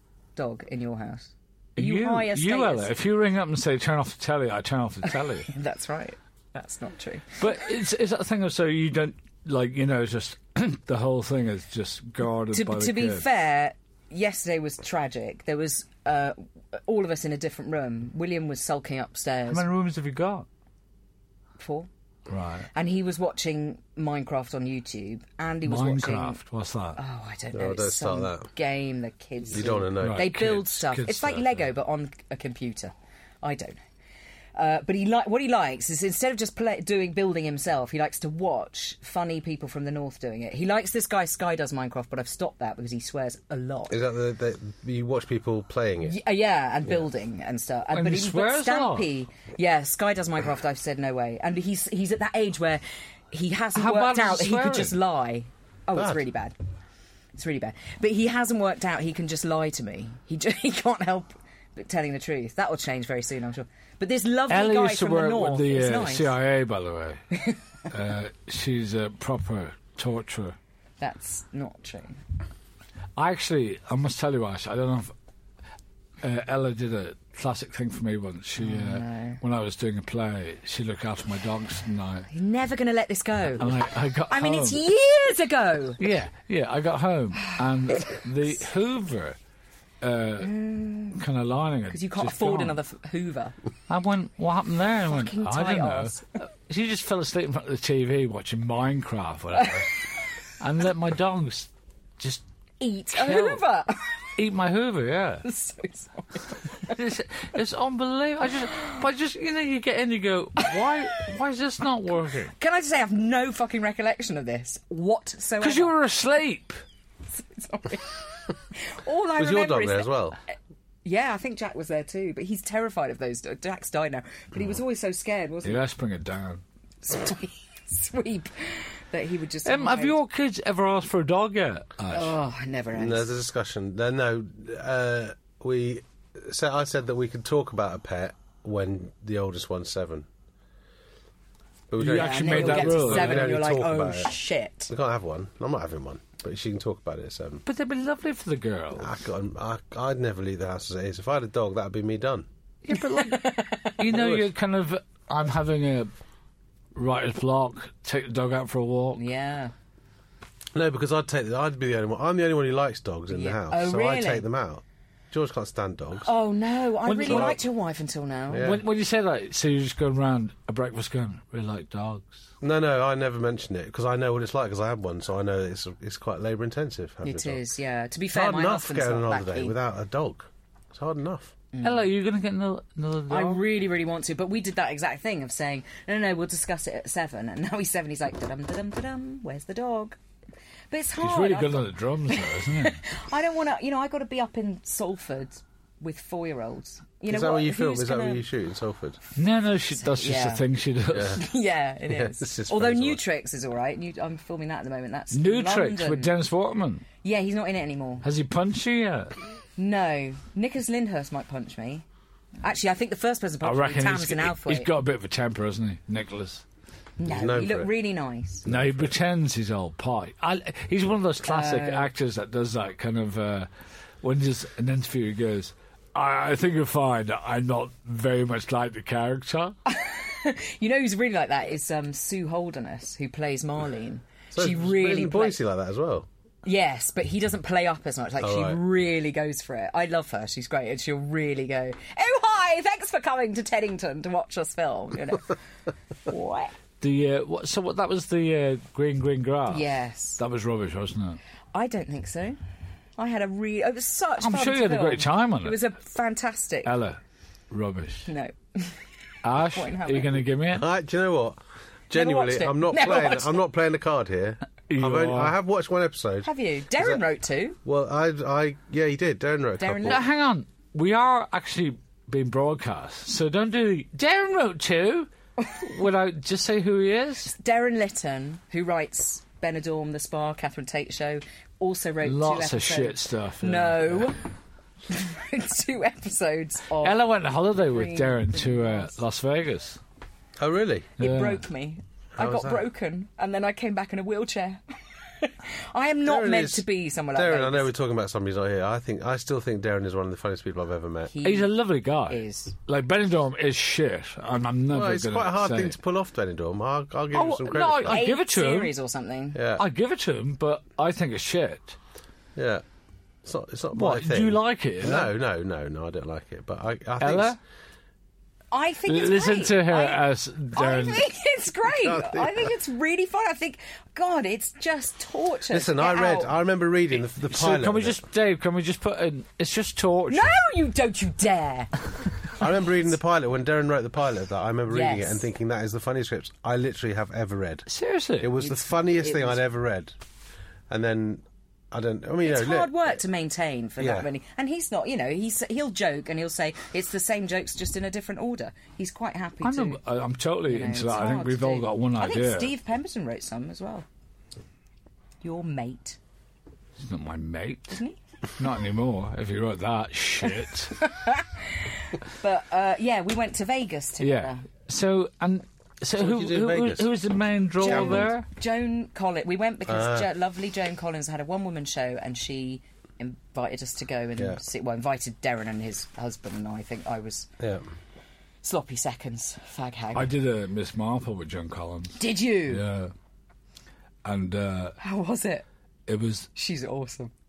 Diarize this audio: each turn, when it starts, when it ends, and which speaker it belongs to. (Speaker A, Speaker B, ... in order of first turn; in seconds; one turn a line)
Speaker A: 0.4-2.9
Speaker B: 1.8-5.5
Speaker A: 5.1-7.6
Speaker B: 7.4-13.2
Speaker A: 12.5-19.7
Speaker B: 19.5-20.5
Speaker A: 21.6-21.9
Speaker B: 22.3-22.7
Speaker A: 22.7-26.4
Speaker B: 25.7-27.0
Speaker A: 27.0-33.8
Speaker C: 27.5-28.5
Speaker C: 29.5-30.3
Speaker B: 30.0-31.7
Speaker A: 34.6-44.0
Speaker C: 43.9-46.2
Speaker A: 46.0-56.5
Speaker B: 47.9-49.1
Speaker B: 53.8-55.0
Speaker C: 56.0-56.2
Speaker A: 57.4-66.3
Speaker B: 64.5-67.2
Speaker B: 67.9-70.6
Speaker A: 71.0-72.2
Speaker B: 73.2-75.1
Speaker B: 76.2-82.3
Speaker A: 78.6-79.4
Speaker A: 82.3-83.7
Speaker B: 83.6-84.8
Speaker A: 84.3-86.0
Speaker B: 86.0-89.4
Speaker B: 90.0-90.5
Speaker A: 90.4-91.2
Speaker B: 91.1-92.8
Speaker A: 91.9-93.6
Speaker B: 93.9-99.9
Speaker A: 95.1-96.2
Speaker B: 100.6-102.4
Speaker A: 102.8-104.3
Speaker B: 103.1-103.6
Speaker B: 104.4-105.5
Speaker A: 105.4-107.0
Speaker B: 106.9-112.5
Speaker A: 110.6-111.2
Speaker A: 112.5-116.0
Speaker B: 115.6-116.8
Speaker A: 117.3-120.1
Speaker C: 119.4-120.4
Speaker A: 121.0-125.8
Speaker B: 125.6-126.6
Speaker A: 127.0-130.2
Speaker B: 129.7-132.3
Speaker A: 132.1-133.3
Speaker C: 132.9-140.3
Speaker C: 141.9-144.3
Speaker B: 142.0-143.5
Speaker A: 142.1-144.9
Speaker C: 144.9-147.6
Speaker B: 147.7-149.1
Speaker C: 149.0-152.5
Speaker B: 152.8-156.1
Speaker A: 152.9-154.0
Speaker C: 154.1-154.5
Speaker B: 156.9-159.2
Speaker A: 159.2-159.7
Speaker C: 160.7-166.3
Speaker A: 163.3-164.5
Speaker A: 166.2-168.8
Speaker B: 167.1-167.6
Speaker C: 167.3-167.6
Speaker C: 168.5-168.8
Speaker B: 168.6-172.4
Speaker C: 172.6-177.6
Speaker A: 177.2-179.8
Speaker C: 178.3-181.5
Speaker A: 181.7-182.1
Speaker B: 181.8-183.6
Speaker A: 183.3-190.2
Speaker A: 190.9-198.5
Speaker B: 191.2-193.0
Speaker C: 197.3-199.2
Speaker B: 199.4-201.4
Speaker A: 200.0-200.6
Speaker C: 201.1-201.4
Speaker A: 201.3-206.3
Speaker C: 202.1-203.2
Speaker B: 205.3-207.1
Speaker A: 207.2-208.2
Speaker B: 208.2-209.3
Speaker A: 209.8-212.1
Speaker A: 212.6-214.9
Speaker B: 213.6-216.6
Speaker A: 217.2-218.7
Speaker C: 217.2-217.9
Speaker C: 218.7-219.1
Speaker B: 218.7-223.7
Speaker A: 221.4-222.1
Speaker B: 224.2-229.8
Speaker A: 229.9-235.6
Speaker C: 234.5-236.3
Speaker A: 236.6-245.6
Speaker C: 238.4-238.8
Speaker A: 246.3-246.7
Speaker B: 247.0-251.4
Speaker A: 249.7-250.4
Speaker A: 251.7-252.6
Speaker A: 253.2-256.9
Speaker B: 254.4-255.8
Speaker B: 256.9-257.2
Speaker B: 257.7-258.3
Speaker A: 258.3-259.0
Speaker B: 259.4-260.9
Speaker A: 259.5-260.4
Speaker C: 260.7-261.6
Speaker C: 262.1-267.2
Speaker A: 262.1-263.6
Speaker B: 264.9-265.6
Speaker A: 266.4-267.8
Speaker C: 267.9-270.2
Speaker A: 269.8-270.2
Speaker B: 270.0-277.6
Speaker A: 277.5-284.4
Speaker B: 282.2-284.3
Speaker A: 285.1-287.2
Speaker B: 287.0-290.0
Speaker A: 287.8-289.2
Speaker C: 290.6-291.1
Speaker A: 291.2-294.8
Speaker B: 291.2-291.6
Speaker C: 292.4-292.9
Speaker A: 295.4-297.9
Speaker C: 296.3-301.3
Speaker A: 301.3-301.8
Speaker B: 301.4-306.0
Speaker A: 302.3-302.8
Speaker C: 304.9-308.2
Speaker B: 307.3-308.9
Speaker A: 308.0-309.6
Speaker C: 309.5-309.9
Speaker B: 309.8-312.0
Speaker C: 312.6-312.8
Speaker C: 313.4-317.6
Speaker B: 313.9-315.3
Speaker B: 317.2-317.6
Speaker A: 318.7-326.5
Speaker B: 319.1-321.2
Speaker C: 321.9-322.7
Speaker C: 325.7-328.2
Speaker B: 327.4-330.6
Speaker A: 330.3-331.9
Speaker C: 332.6-337.9
Speaker A: 334.9-335.4
Speaker B: 337.9-338.5
Speaker C: 338.4-340.2
Speaker A: 338.6-339.6
Speaker C: 340.9-343.0
Speaker A: 342.4-350.0
Speaker C: 344.0-344.3
Speaker B: 349.6-352.7
Speaker A: 350.7-354.1
Speaker A: 355.4-356.2
Speaker B: 357.0-358.0
Speaker A: 357.9-358.2
Speaker B: 358.6-361.0
Speaker A: 361.0-364.6
Speaker B: 364.2-368.5
Speaker C: 366.2-367.1
Speaker A: 367.8-377.5
Speaker C: 367.8-368.3
Speaker C: 369.9-370.3
Speaker C: 377.6-377.9
Speaker A: 378.6-380.3
Speaker B: 380.1-383.1
Speaker A: 382.2-382.8
Speaker B: 384.2-385.0
Speaker A: 385.0-385.6
Speaker B: 386.1-386.5
Speaker A: 386.6-387.3